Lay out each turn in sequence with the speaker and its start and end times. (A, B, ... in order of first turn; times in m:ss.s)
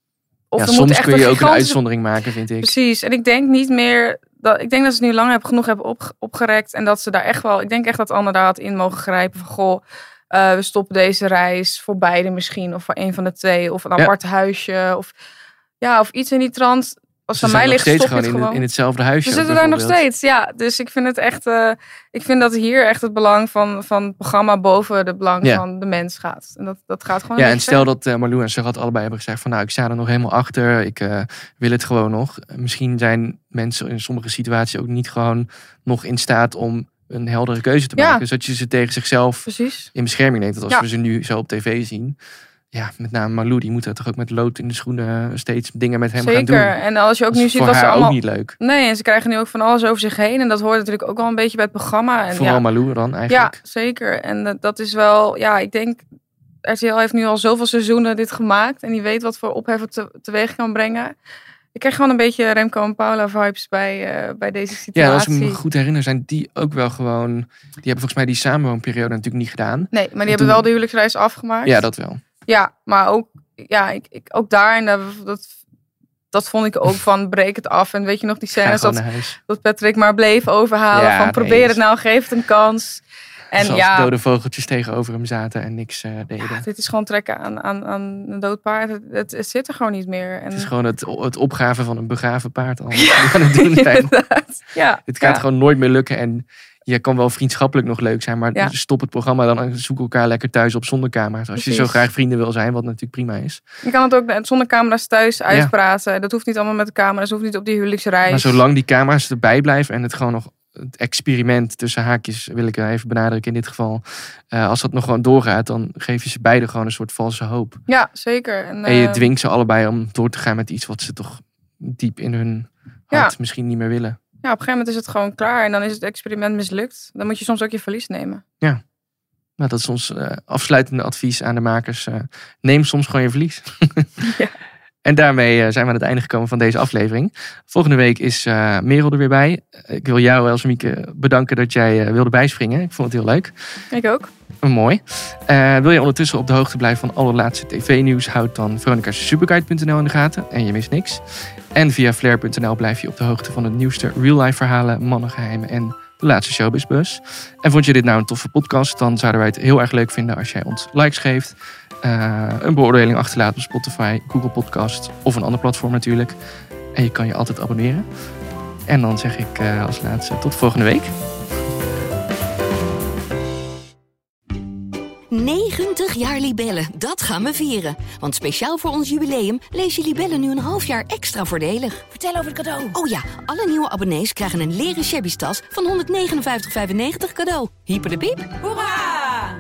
0:00.5-0:01.8 A
0:00.6-0:02.7 B
0:02.6-0:15.1 A
0:15.8-0:18.6 A
0:17.4-0:20.0 B
0:19.2-0:27.8 A
0:27.4-0:42.2 B
0:38.0-0:38.2 A
0:39.5-0:39.9 A
0:42.7-0:46.8 B
0:46.2-0:52.6 A
0:47.3-0:48.6 B
0:52.3-0:53.6 B
0:53.3-0:56.0 A
0:56.6-1:01.1 A
1:01.8-1:05.6 A
1:04.9-1:10.7 B
1:09.9-1:11.8 A
1:11.6-1:12.2 B
1:12.5-1:15.5 A
1:16.3-1:24.1 A
1:18.6-1:19.4 B
1:20.9-1:21.8 B
1:23.6-1:26.7 B
1:26.5-1:30.7 A
1:30.5-1:34.3 B
1:33.0-1:35.4 A
1:35.1-1:43.6 B
1:41.6-1:42.0 A
1:43.8-1:48.6 A
1:48.3-1:57.8 B
1:57.9-1:59.3 A
1:58.8-2:04.2 B
2:04.4-2:08.4 A
2:09.6-2:14.3 B
2:14.2-2:14.6 A
2:15.0-2:23.5 B
2:23.9-2:24.3 A
2:24.6-2:46.4 B
2:46.9-2:48.1 B
2:48.9-2:51.1 B
2:55.3-3:08.7 C